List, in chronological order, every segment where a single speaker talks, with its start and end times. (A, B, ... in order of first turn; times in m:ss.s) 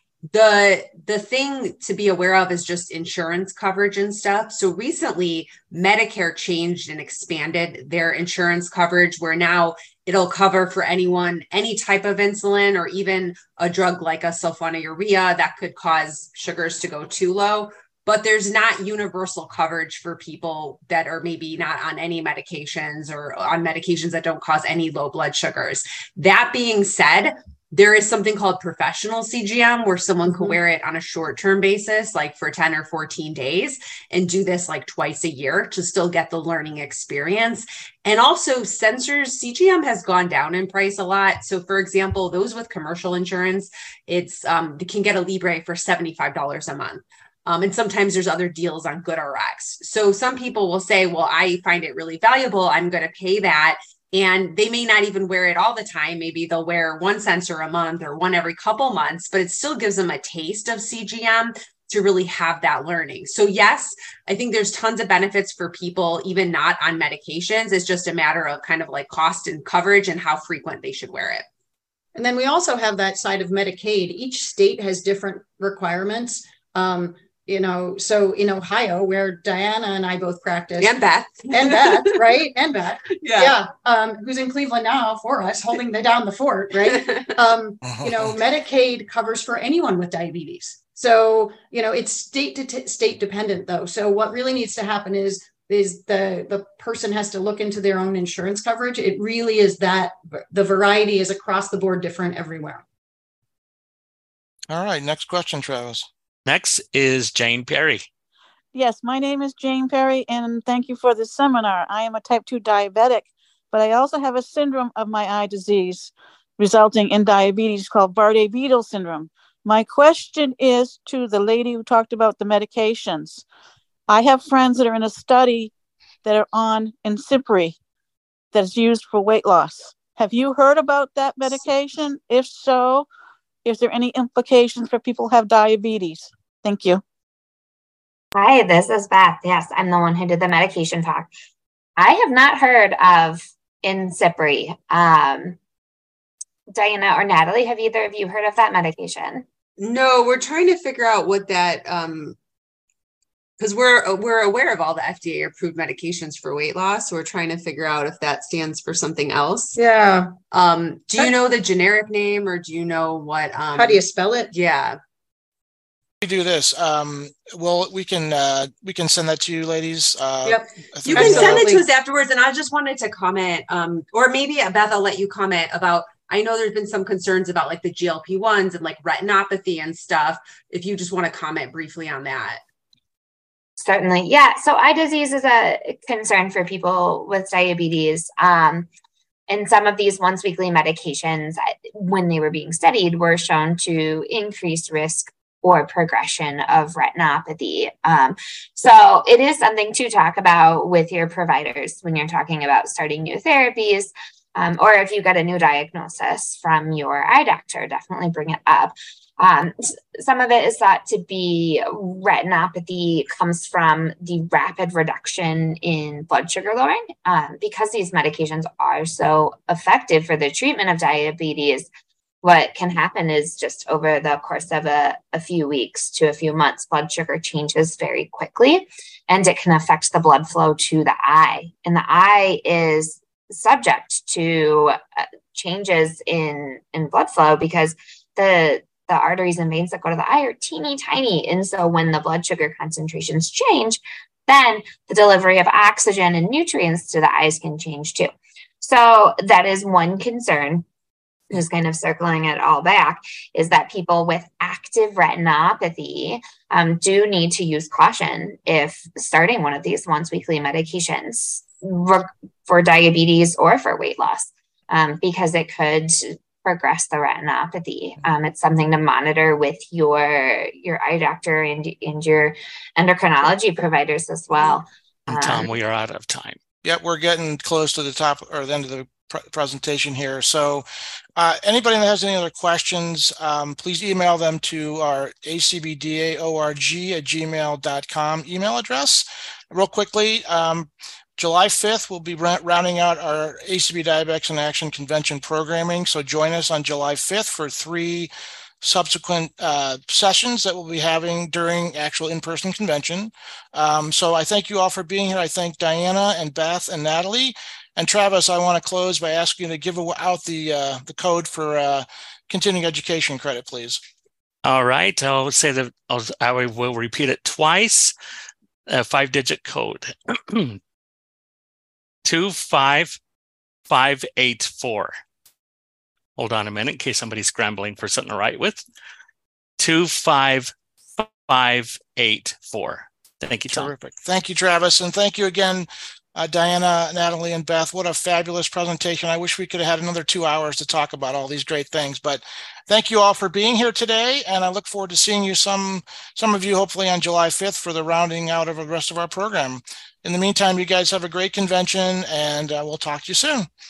0:00.3-1:11.4 A
0:30.3-0:30.5 B
1:12.1-1:20.9 B
1:20.8-1:22.2 A
1:21.5-1:42.8 B
1:23.2-1:23.5 A
1:26.8-1:27.3 A
1:27.8-1:28.4 C
1:44.7-1:46.1 C
1:46.4-1:48.1 D
1:48.7-2:03.4 E
2:04.1-2:05.7 E
2:06.2-2:07.8 E
2:08.5-2:13.1 E
2:13.6-2:17.0 E
2:18.3-2:21.3 F
2:22.0-2:25.6 F
2:26.7-2:29.4 F
2:29.8-2:32.4 A
2:33.6-2:39.8 A
2:39.8-2:40.3 B
2:40.5-2:44.0 A
2:43.7-2:44.5 B
2:44.5-2:45.0 A
2:46.2-2:51.8 C
2:50.4-2:51.8 B
2:51.1-3:02.6 A
3:03.8-3:08.9 F
3:09.5-3:41.9 F
3:42.4-4:08.3 F
4:08.8-4:10.8 F
4:11.5-4:35.7 F
4:35.3-4:36.6 D
4:36.8-4:40.8 C
4:41.4-4:58.3 C
4:58.8-5:14.0 C
5:14.6-5:18.1 D
5:18.9-5:20.8 D
5:22.2-5:23.2 D
5:23.9-5:25.1 D
5:26.4-5:28.8 D
5:29.8-5:33.9 D
5:33.7-5:53.7 C